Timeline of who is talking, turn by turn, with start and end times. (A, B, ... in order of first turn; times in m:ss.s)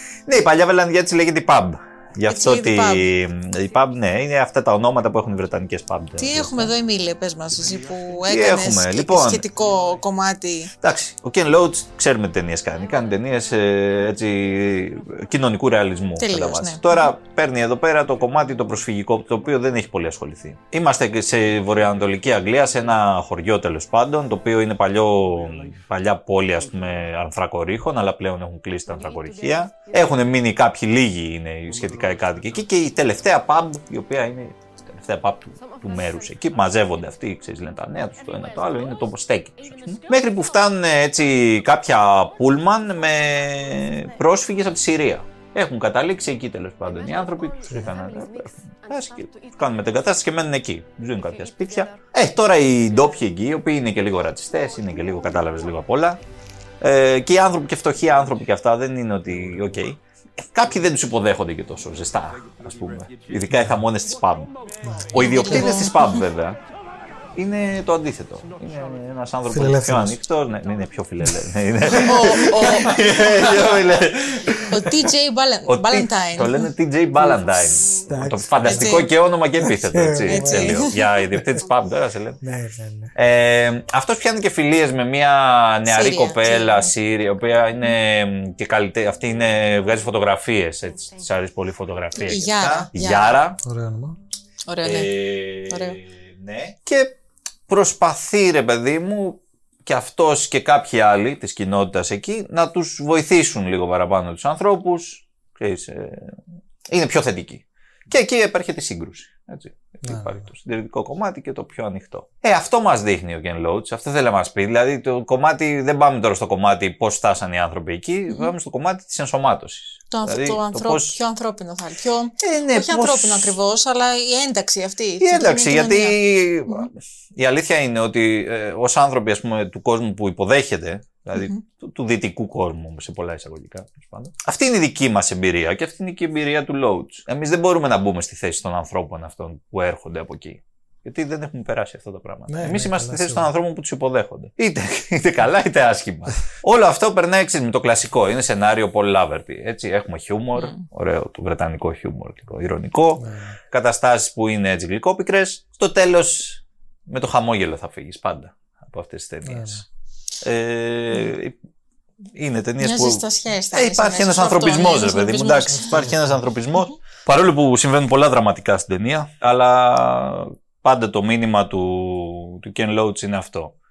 0:00.3-0:06.7 A
0:02.3-0:03.1 B
0:06.2-0:10.7 B
0:08.3-0:09.4 A
0:10.8-0:56.2 A
0:16.2-0:17.0 B
0:47.6-0:47.9 C
0:56.8-1:04.5 A
1:04.8-1:05.8 C
1:05.1-1:06.6 A
1:05.1-1:06.2 B
1:07.4-1:14.7 A
1:09.5-1:10.2 C
1:11.2-1:11.5 C
1:11.9-1:13.5 B
1:14.7-1:16.7 B
1:15.7-1:22.4 A
1:17.9-1:19.0 C
1:18.7-1:19.1 B
1:19.6-1:21.6 C
1:20.3-1:21.0 B
1:22.4-1:23.1 C
1:23.2-1:33.6 A
1:25.9-1:26.9 B
1:32.2-1:33.4 B
1:33.6-1:34.2 C
1:34.7-1:36.0 B
1:34.8-1:37.2 A
1:37.7-2:01.2 A
1:50.0-1:50.5 C
2:00.1-2:06.9 B
2:02.4-2:03.5 A
2:05.2-2:39.8 A
2:11.3-2:11.6 B
2:22.5-2:23.5 C
2:30.6-2:30.8 B
2:33.2-2:33.6 C
2:39.4-2:39.8 C
2:40.4-2:41.6 A
2:42.4-2:53.7 A
2:42.8-2:46.1 B
2:45.9-2:46.3 C